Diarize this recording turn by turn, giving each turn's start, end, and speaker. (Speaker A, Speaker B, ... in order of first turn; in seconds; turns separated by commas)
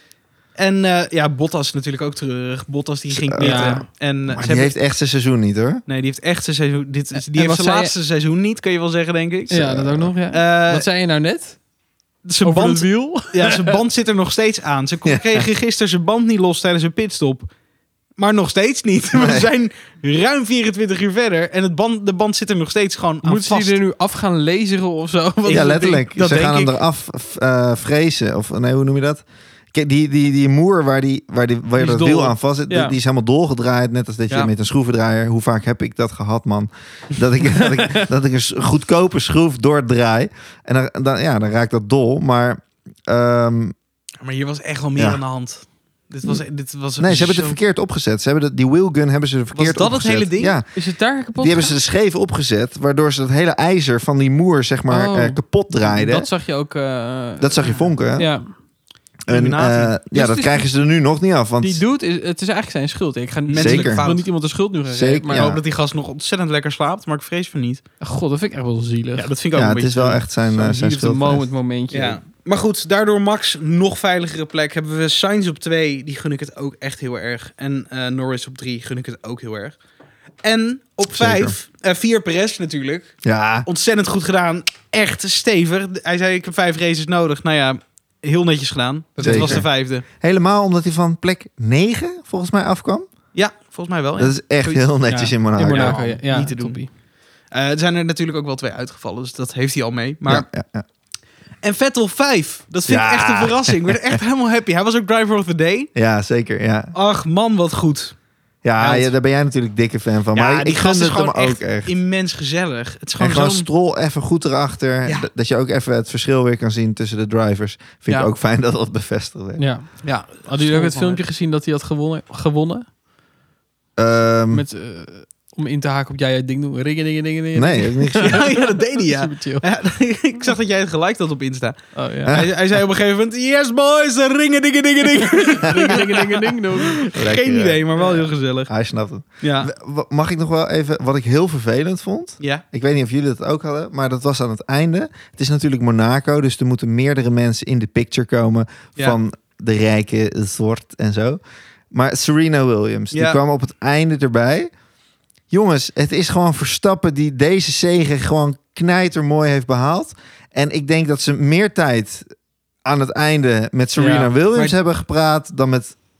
Speaker A: 0.6-4.7, Speaker B: 3.1-5.8, Speaker C: 3.4-3.8, Speaker A: 5.8-9.7, Speaker C: 7.2-7.9, Speaker C: 9.5-11.6, Speaker B: 9.5-10.1, Speaker A: 10.3-10.8, Speaker A: 12.2-17.5, Speaker C: 12.4-13.8, Speaker B: 15.0-15.4, Speaker A: 18.2-23.8, Speaker B: 19.1-19.5, Speaker C: 23.2-26.1, Speaker A: 25.4-26.7, Speaker B: 25.5-43.7, Speaker C: 31.8-32.9, Speaker C: 37.6-38.0, Speaker A: 44.2-47.6, Speaker B: 45.0-45.2, Speaker B: 47.0-50.7, Speaker A: 49.5-50.6, Speaker C: 50.7-51.8, Speaker B: 51.4-56.3, Speaker C: 54.9-58.5, Speaker B: 57.4-58.3, Speaker B: 59.2-61.8, Speaker A: 59.3-60.0, Speaker C: 60.1-60.6, Speaker C: 61.6-65.5, Speaker A: 63.5-64.2, Speaker B: 63.5-64.0, Speaker B: 64.9-65.6, Speaker A: 65.3-67.8, Speaker C: 68.0-69.3, Speaker A: 69.2-70.2, Speaker B: 69.5-71.5, Speaker C: 70.5-72.2, Speaker A: 71.9-79.8, Speaker A: 80.4-90.0, Speaker B: 81.1-81.5, Speaker B: 83.2-83.7, Speaker C: 89.2-89.6, Speaker B: 89.2-93.0, Speaker A: 93.3-94.9, Speaker B: 94.2-96.2, Speaker C: 95.1-96.9, Speaker A: 95.5-96.8, Speaker A: 97.5-100.5, Speaker B: 100.3-100.8, Speaker A: 101.6-105.9, Speaker B: 102.8-104.1, Speaker B: 105.9-106.9, Speaker A: 106.9-108.1, Speaker B: 108.6-111.9, Speaker A: 108.8-109.1, Speaker A: 110.3-113.7, Speaker B: 113.2-119.6, Speaker C: 119.6-122.8, Speaker A: 120.0-121.2, Speaker B: 124.0-124.6, Speaker C: 124.5-129.6, Speaker B: 127.5-128.4, Speaker A: 128.2-138.7, Speaker C: 131.9-132.4, Speaker B: 132.2-132.5, Speaker C: 135.3-137.0, Speaker B: 137.1-151.4, Speaker A: 139.4-139.7, Speaker B: 151.9-154.7, Speaker A: 153.1-153.4, Speaker B: 155.5-162.3, Speaker B: 162.8-165.9, Speaker C: 163.9-164.3